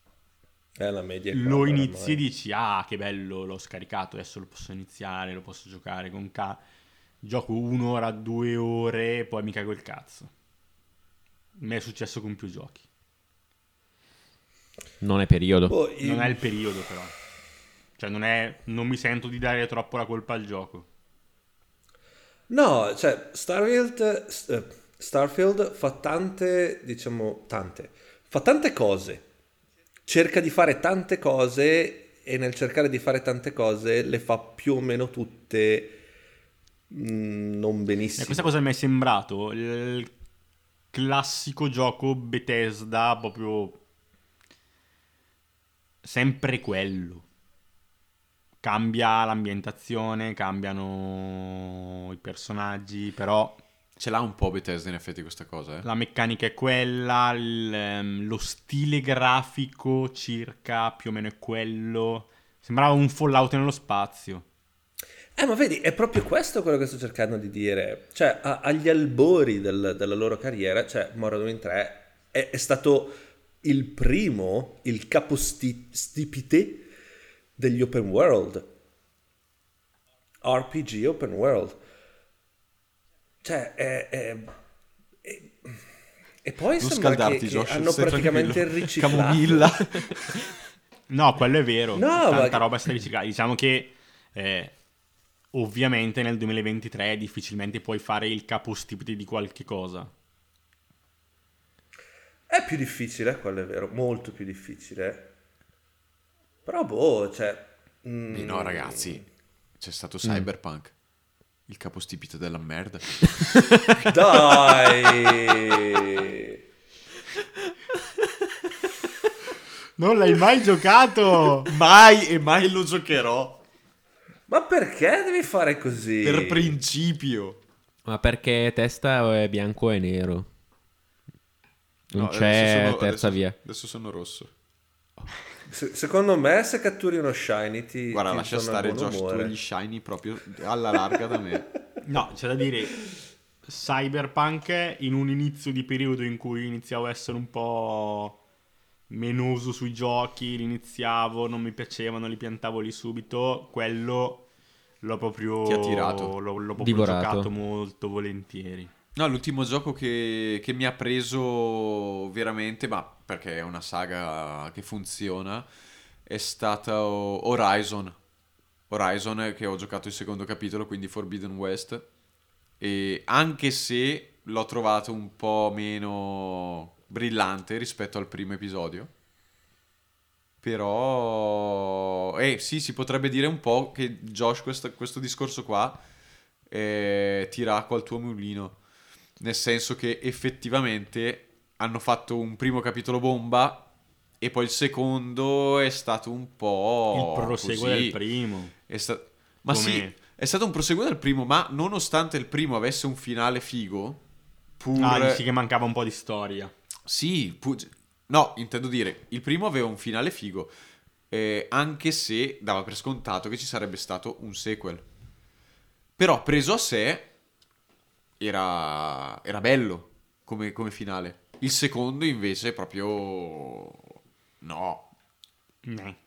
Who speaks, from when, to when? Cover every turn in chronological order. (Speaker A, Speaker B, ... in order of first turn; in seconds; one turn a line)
Speaker A: 0.8-2.2
Speaker B: 1.3-6.6
Speaker B: 7.2-10.3
Speaker B: 11.6-12.8
Speaker C: 15.0-15.8
Speaker A: 15.7-16.4
Speaker B: 16.0-17.1
Speaker B: 18.0-20.9
Speaker A: 22.5-29.2
Speaker A: 30.1-36.0
Speaker A: 36.9-38.5
Speaker B: 38.2-40.1
Speaker B: 40.9-43.8
Speaker B: 46.0-47.3
Speaker B: 48.6-53.6
Speaker D: 54.0-55.9
Speaker B: 55.8-64.5
Speaker A: 65.3-76.9
Speaker A: 77.6-78.7
Speaker A: 80.4-81.8
Speaker A: 83.4-84.5
Speaker A: 85.2-85.8
Speaker A: 86.4-89.8
Speaker D: 86.8-90.4
Speaker B: 91.1-94.8
Speaker A: 92.0-92.7
Speaker B: 95.5-100.1
Speaker A: 102.5-105.3
Speaker A: 106.7-109.2
Speaker D: 108.3-109.2
Speaker D: 109.8-110.9
Speaker D: 111.7-113.5
Speaker D: 114.0-114.9
Speaker A: 114.0-116.6
Speaker B: 120.0-121.7
Speaker D: 121.7-123.6
Speaker A: 124.5-126.8
Speaker D: 126.2-127.6
Speaker C: 128.1-130.5
Speaker C: 132.1-133.6
Speaker D: 132.1-134.5
Speaker A: 135.7-139.5
Speaker D: 138.1-141.7
Speaker B: 142.0-143.0
Speaker B: 143.7-148.4
Speaker B: 149.1-154.4
Speaker B: 155.0-158.9
Speaker D: 155.7-156.3
Speaker C: 156.8-157.5
Speaker D: 159.2-165.7
Speaker D: 166.3-168.2
Speaker D: 168.9-172.1
Speaker D: 172.8-179.1
Speaker D: 180.6-186.0
Speaker D: 186.7-188.8
Speaker D: 189.4-193.8
Speaker D: 194.4-198.2
Speaker B: 197.1-198.7
Speaker D: 198.9-204.2
Speaker B: 199.7-200.2
Speaker D: 204.8-205.4
Speaker B: 204.9-206.7
Speaker D: 207.1-210.7
Speaker D: 211.3-215.1
Speaker D: 216.2-217.3
Speaker D: 218.4-225.1
Speaker B: 225.8-226.2